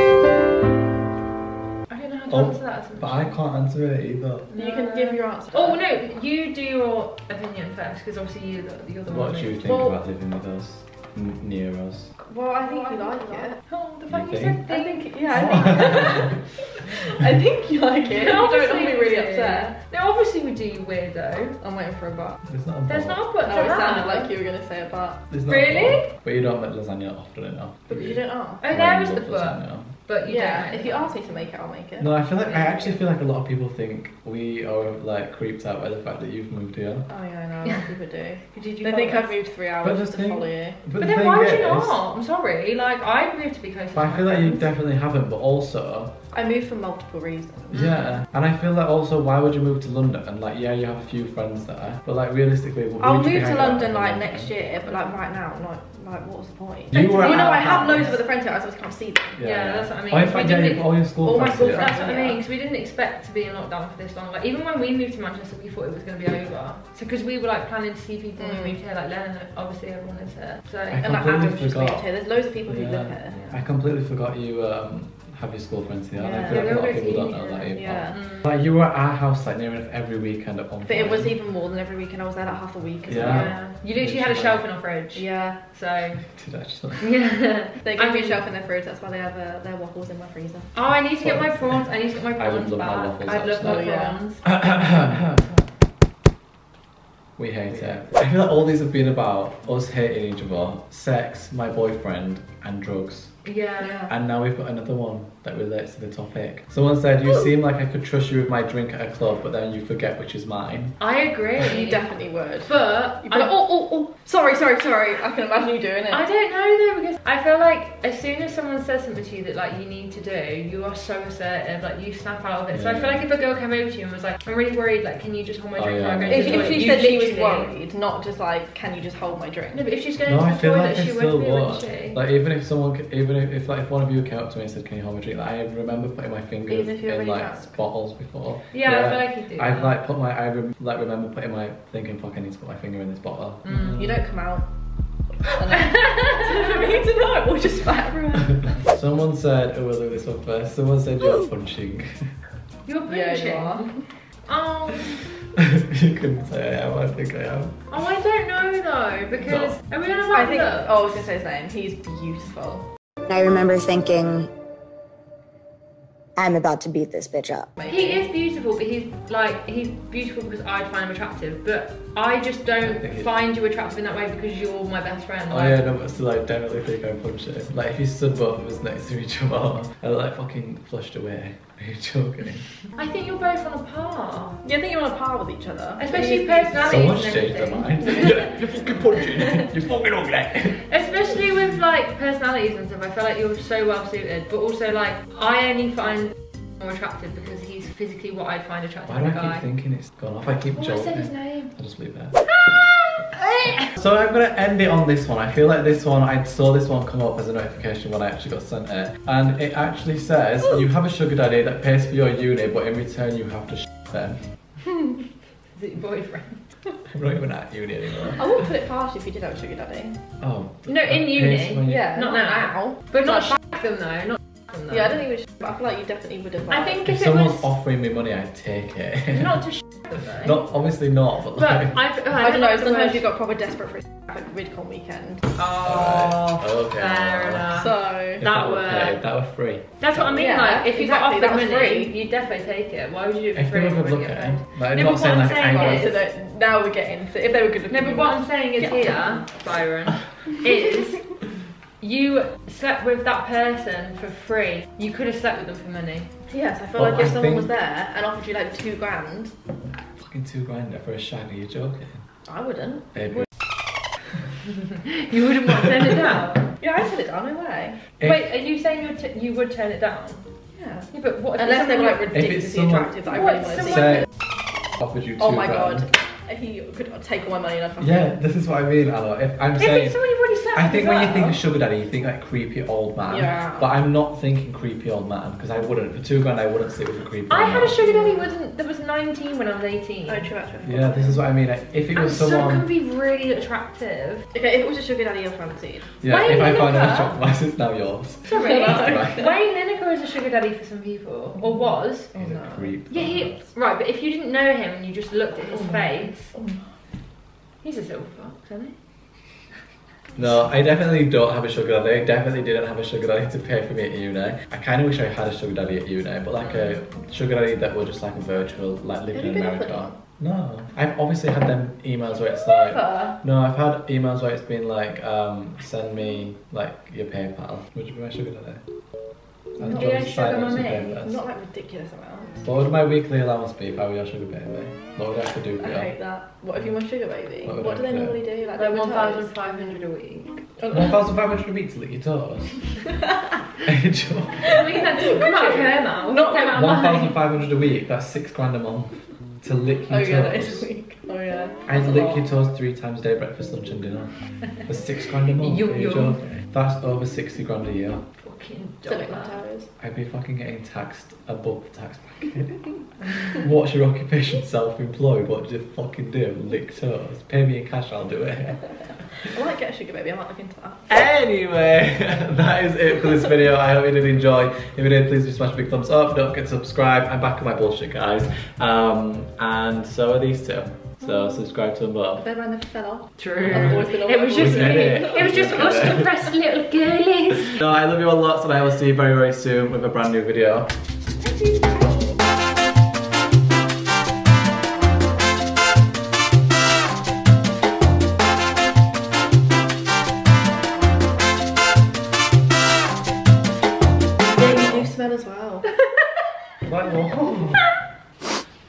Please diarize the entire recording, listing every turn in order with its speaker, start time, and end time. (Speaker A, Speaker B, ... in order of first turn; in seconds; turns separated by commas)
Speaker A: 1.9-3.4, Speaker B: 2.3-4.5, Speaker A: 4.5-9.9, Speaker C: 4.5-5.9, Speaker B: 9.1-12.1, Speaker C: 9.6-10.0, Speaker C: 12.2-13.6, Speaker A: 12.6-16.1, Speaker B: 14.1-14.6, Speaker C: 14.7-19.8, Speaker B: 15.3-16.4, Speaker A: 18.0-21.6, Speaker C: 21.6-22.4, Speaker B: 22.5-23.2, Speaker A: 22.9-24.3, Speaker C: 23.5-25.2, Speaker B: 25.3-29.9, Speaker A: 25.5-26.1, Speaker C: 27.9-28.6, Speaker A: 28.6-31.3, Speaker C: 30.3-32.2, Speaker B: 32.0-37.1, Speaker A: 32.4-33.0, Speaker C: 37.1-40.8, Speaker A: 38.5-39.3, Speaker B: 39.8-42.0, Speaker A: 41.0-44.7, Speaker B: 44.0-46.1, Speaker C: 46.3-47.9, Speaker B: 47.7-54.5, Speaker C: 53.0-59.4, Speaker B: 56.9-58.1, Speaker A: 56.9-58.2, Speaker B: 59.4-62.0, Speaker A: 59.4-60.9, Speaker C: 61.2-62.4, Speaker A: 61.6-71.1, Speaker C: 68.4-68.7, Speaker B: 70.9-72.1, Speaker C: 71.0-73.6, Speaker B: 72.7-81.4, Speaker C: 76.1-77.0, Speaker A: 76.5-78.5, Speaker C: 77.7-78.2, Speaker C: 80.9-83.5, Speaker B: 83.1-84.7, Speaker A: 83.1-86.2, Speaker C: 85.2-85.6, Speaker B: 86.2-87.1, Speaker A: 87.0-88.4, Speaker C: 87.8-90.7, Speaker A: 90.7-94.5, Speaker B: 91.2-95.4, Speaker C: 93.6-94.2, Speaker B: 97.4-103.4, Speaker A: 103.4-104.1, Speaker C: 103.8-104.1, Speaker B: 104.1-111.0, Speaker A: 111.0-112.1, Speaker C: 111.7-112.7, Speaker A: 112.6-113.5, Speaker C: 113.2-116.2, Speaker A: 116.1-127.7, Speaker B: 122.7-123.2, Speaker B: 125.8-126.9, Speaker C: 126.3-129.8, Speaker A: 129.7-132.2, Speaker B: 130.2-144.2, Speaker C: 136.7-137.8, Speaker A: 138.7-139.9, Speaker A: 143.7-144.0, Speaker C: 143.8-144.7, Speaker C: 145.4-148.7, Speaker B: 148.6-152.3, Speaker A: 152.9-153.9, Speaker C: 153.1-154.1, Speaker A: 154.4-155.2, Speaker B: 155.6-157.8, Speaker A: 157.9-161.2, Speaker B: 159.4-159.8, Speaker C: 160.3-162.9, Speaker D: 163.3-164.5, Speaker D: 166.4-167.7, Speaker C: 167.8-168.2, Speaker A: 167.8-175.8, Speaker B: 172.8-173.3, Speaker B: 175.5-182.7, Speaker A: 183.0-184.6, Speaker C: 184.6-187.1, Speaker A: 186.0-188.6, Speaker B: 186.8-190.9, Speaker A: 190.8-199.7, Speaker B: 199.1-202.4, Speaker A: 200.7-201.7, Speaker A: 202.4-203.9, Speaker B: 203.9-214.4, Speaker A: 215.8-216.6, Speaker B: 217.1-218.5, Speaker C: 218.4-220.2, Speaker B: 220.4-222.1, Speaker A: 220.9-225.2, Speaker C: 221.9-223.4, Speaker C: 224.9-226.9, Speaker A: 226.7-227.6, Speaker B: 227.1-229.7, Speaker A: 229.3-230.5, Speaker B: 230.3-232.0, Speaker A: 231.6-233.3, Speaker C: 232.4-235.4, Speaker A: 235.6-239.2, Speaker B: 235.8-237.8, Speaker C: 237.7-238.4, Speaker B: 238.4-240.4, Speaker A: 240.0-246.2, Speaker C: 240.3-242.1, Speaker B: 243.6-246.2, Speaker C: 245.7-249.5, Speaker A: 247.9-251.3, Speaker A: 252.0-256.3, Speaker C: 256.5-259.5, Speaker B: 257.0-257.7, Speaker B: 260.2-262.2, Speaker C: 262.4-263.0, Speaker B: 263.1-263.5, Speaker A: 265.2-266.7, Speaker C: 266.8-268.0, Speaker A: 268.2-270.4, Speaker C: 270.8-271.1, Speaker A: 271.1-272.4, Speaker C: 271.6-274.1, Speaker B: 272.3-273.2, Speaker A: 273.2-274.2, Speaker B: 273.8-274.3, Speaker B: 275.0-276.1, Speaker C: 275.5-278.3, Speaker B: 278.0-280.2, Speaker A: 279.8-281.6, Speaker B: 280.8-288.0, Speaker C: 283.3-283.8, Speaker A: 287.5-290.4, Speaker C: 288.0-288.5, Speaker C: 290.3-291.4, Speaker B: 290.8-292.9, Speaker A: 292.1-294.5, Speaker C: 294.5-296.1, Speaker B: 296.2-299.5, Speaker A: 296.2-297.4, Speaker A: 298.4-302.3, Speaker C: 298.6-299.3, Speaker C: 302.3-302.9, Speaker B: 302.4-303.6, Speaker A: 303.1-306.5, Speaker C: 305.7-306.8, Speaker A: 307.8-308.9, Speaker B: 310.4-328.8, Speaker A: 316.6-317.0, Speaker C: 319.3-320.1, Speaker A: 322.6-323.4, Speaker B: 329.8-331.4, Speaker A: 329.8-331.1, Speaker C: 331.1-332.6, Speaker B: 332.6-336.1, Speaker C: 335.8-339.8, Speaker B: 337.6-338.4, Speaker A: 338.7-340.7, Speaker B: 340.9-342.8, Speaker B: 343.8-344.8, Speaker A: 344.6-347.4, Speaker C: 345.2-346.7, Speaker B: 346.7-350.9, Speaker C: 350.1-352.4, Speaker B: 351.9-358.2, Speaker A: 355.6-356.6, Speaker A: 358.4-359.6, Speaker C: 359.1-359.9, Speaker B: 360.0-369.5, Speaker C: 369.5-371.1, Speaker B: 371.1-382.4, Speaker C: 382.4-385.5, Speaker A: 383.4-387.8, Speaker B: 383.7-386.4, Speaker B: 387.7-390.9, Speaker A: 391.4-391.9, Speaker C: 404.5-405.9, Speaker B: 404.6-405.1, Speaker B: 406.9-407.9